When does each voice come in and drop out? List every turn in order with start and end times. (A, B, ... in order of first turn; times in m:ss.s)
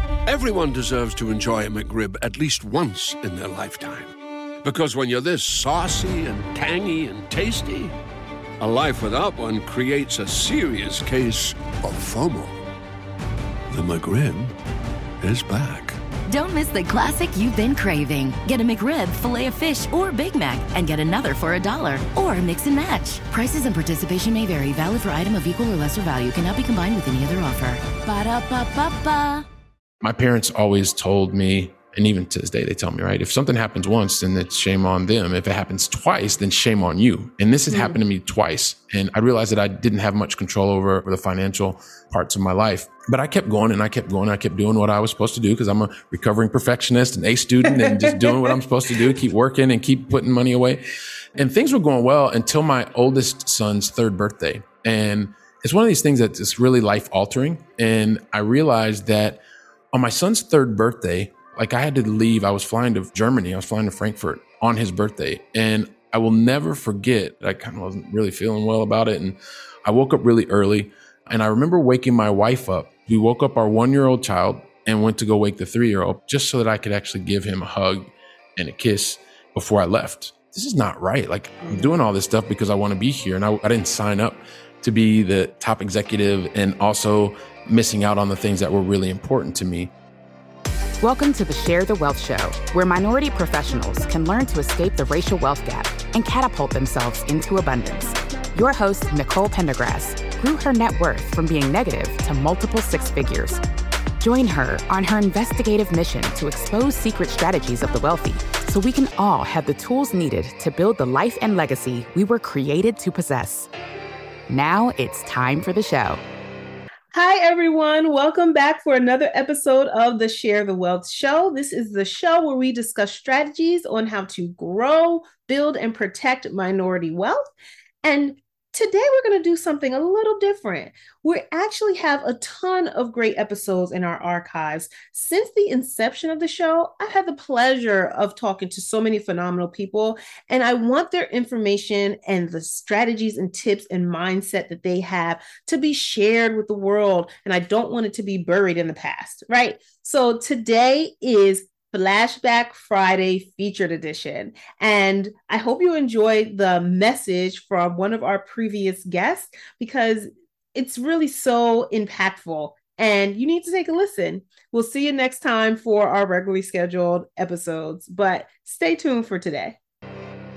0:00.2-0:04.1 A
0:04.6-0:07.9 A
0:08.6-0:12.6 A
0:13.7-0:14.5 A
0:15.2-0:16.0 A
0:16.3-0:29.4 B
0:30.0-0:50.8 C
0:37.7-0:38.0 D
0:47.9-0:48.2 D
0:51.4-0:59.4 C
0:59.9-1:29.9 C
1:31.0-1:43.6 E
1:44.2-1:53.7 E
1:54.5-1:56.2 E
1:57.1-2:07.5 D
2:08.0-2:49.8 D